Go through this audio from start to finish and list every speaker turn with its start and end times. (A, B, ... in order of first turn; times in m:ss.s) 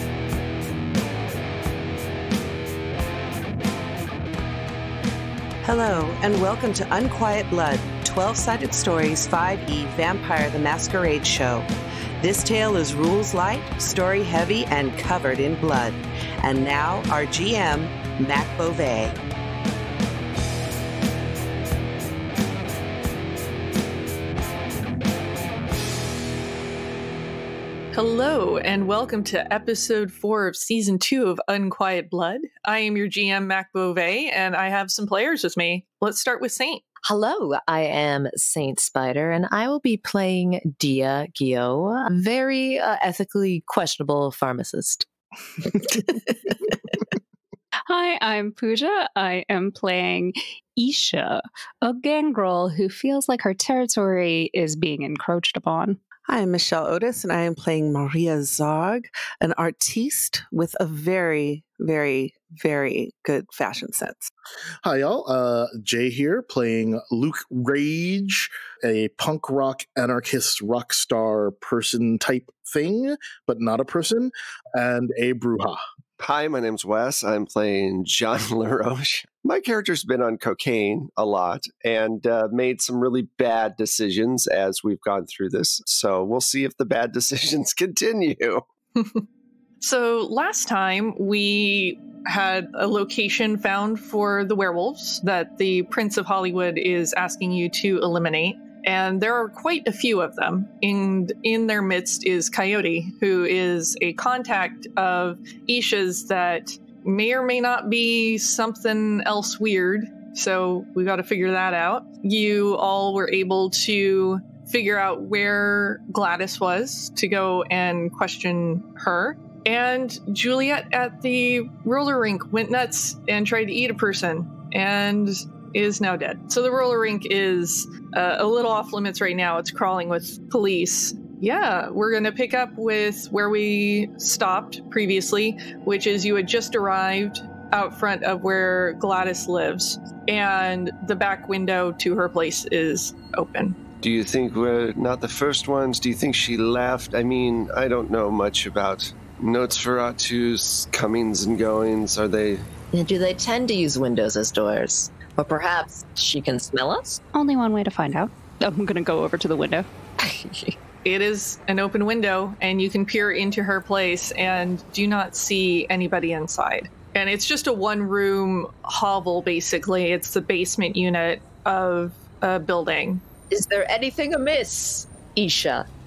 0:05.6-0:11.7 A
0:12.2-0:19.2 A
0:27.9-0:36.8 B
0:37.0-0:45.1 C
0:47.9-0:56.0 D
0:56.3-1:04.3 A
1:04.8-1:15.8 E
1:16.2-1:28.6 F
1:29.8-2:23.8 B
2:24.0-2:32.7 F
2:32.9-2:37.2 C
2:37.3-2:39.9 D
2:40.2-2:40.7 C
2:41.0-2:53.2 B
2:53.5-2:55.8 C